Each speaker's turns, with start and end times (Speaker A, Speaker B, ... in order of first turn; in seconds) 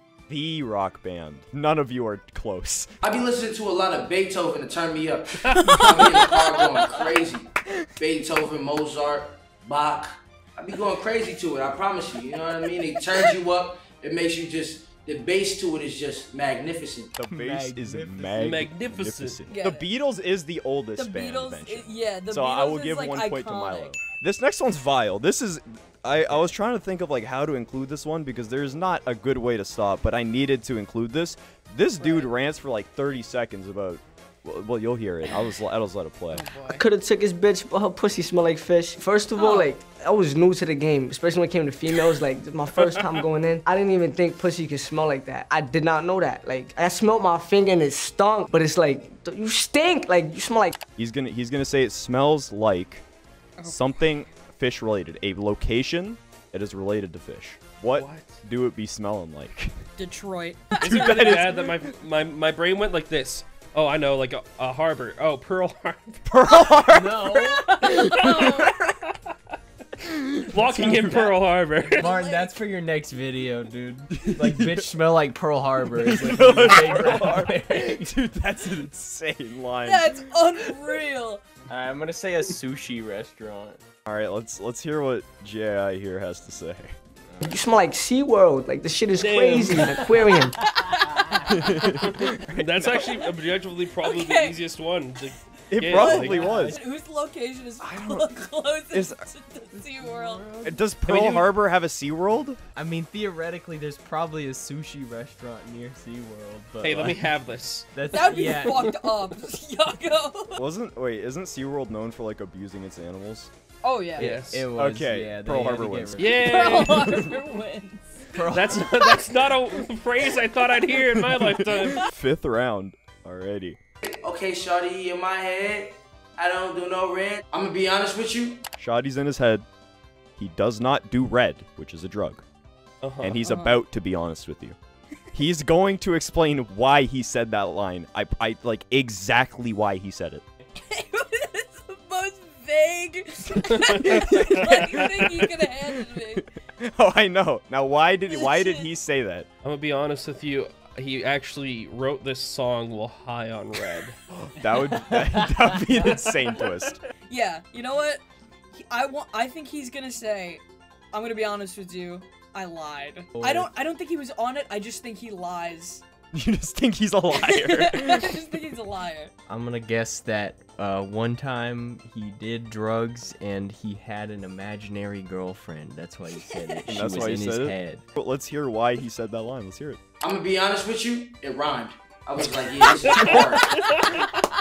Speaker A: 0.3-2.9, 17.2-36.5, 51.0-53.0, 53.6-59.7, 60.8-61.6, 66.3-67.4, 68.2-68.7, 74.2-74.8, 76.0-80.1, 84.1-86.9, 91.5-93.0, 95.7-96.8, 97.8-98.3, 98.9-99.2, 100.7-102.6, 110.6-113.5, 114.8-116.2, 121.4-123.8, 128.8-129.7, 130.4-132.4, 133.2-134.8, 135.3-140.4, 144.0-149.5, 154.4-157.0, 166.3-168.5, 176.9-180.0
Speaker B: 3.0-17.1, 124.0-128.6, 180.2-183.8
Speaker C: 5.5-5.8, 18.4-19.4, 57.9-58.4, 60.8-66.2, 67.8-69.1, 70.5-72.2, 89.2-90.2, 91.9-96.5, 106.8-109.2, 114.2-114.7, 116.2-117.3, 118.5-122.1, 133.0-133.4, 149.6-154.2, 183.0-184.2
Speaker D: 5.5-7.2, 19.5-19.9, 21.0-23.9, 32.0-32.3, 36.3-36.8, 39.4-39.7, 53.6-53.9, 60.0-61.6, 68.2-68.8, 72.0-72.6, 79.8-81.4, 90.7-91.4, 94.0-94.6, 96.0-100.5, 108.1-110.6, 113.8-114.3, 116.3-118.3, 133.4-133.8, 140.8-146.5, 148.3-148.9, 157.3-158.2, 158.8-166.0, 167.3-169.3
Speaker E: 17.3-18.6, 66.8-68.0, 72.0-78.1, 81.7-83.8, 91.0-91.4, 96.2-96.8, 99.7-101.5, 102.7-107.3, 107.9-108.9, 114.2-116.7, 118.3-118.8, 155.0-155.8, 163.4-163.7, 169.5-178.0
Speaker F: 36.7-50.8, 87.4-90.6